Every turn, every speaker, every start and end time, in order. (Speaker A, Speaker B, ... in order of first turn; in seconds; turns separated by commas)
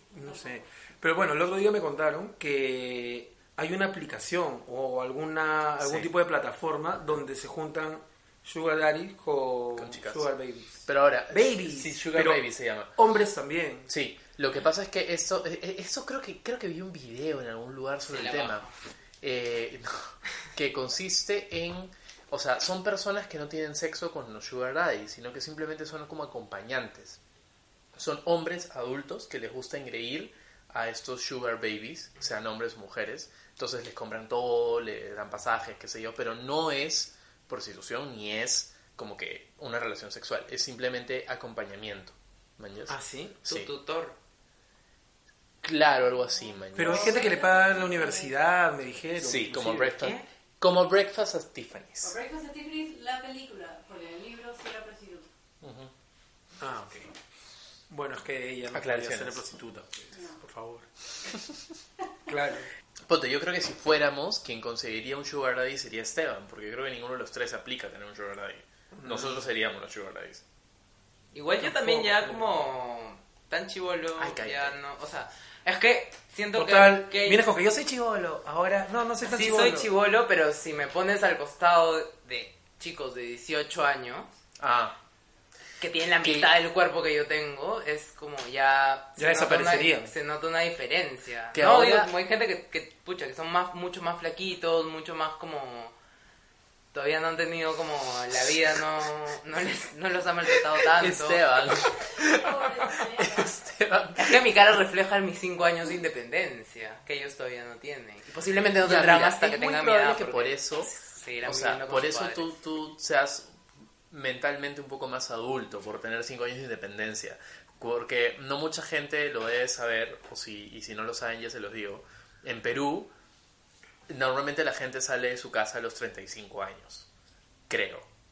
Speaker A: 0.1-12.4, Speaker B: 5.8-6.1, Speaker B: 9.8-10.3, Speaker B: 10.8-12.9, Speaker A: 12.9-13.9, Speaker B: 13.9-18.6, Speaker C: 18.1-18.7, Speaker B: 19.2-27.2, Speaker B: 27.9-43.7, Speaker A: 42.9-43.4, Speaker C: 43.5-44.1, Speaker B: 45.6-47.2, Speaker A: 46.8-50.0, Speaker D: 46.9-48.3, Speaker B: 49.2-52.1, Speaker C: 50.0-50.2, Speaker D: 52.0-55.3, Speaker B: 55.6-55.9, Speaker A: 56.6-57.1, Speaker A: 57.9-60.9, Speaker B: 58.7-59.4, Speaker D: 60.1-60.4, Speaker A: 62.3-62.7, Speaker B: 63.1-70.4, Speaker A: 68.9-69.4, Speaker C: 71.3-77.5, Speaker A: 71.6-72.6, Speaker B: 74.2-74.7, Speaker A: 76.5-79.9, Speaker C: 79.2-84.3, Speaker B: 84.6-84.9, Speaker C: 85.8-95.9, Speaker B: 86.2-86.5, Speaker A: 89.2-90.1, Speaker B: 91.5-92.1, Speaker C: 96.9-101.4, Speaker B: 100.9-104.5, Speaker D: 102.1-103.5, Speaker C: 104.2-112.5, Speaker B: 108.8-110.9, Speaker B: 111.4-113.5, Speaker B: 114.1-123.1, Speaker B: 124.1-127.1, Speaker B: 127.7-128.1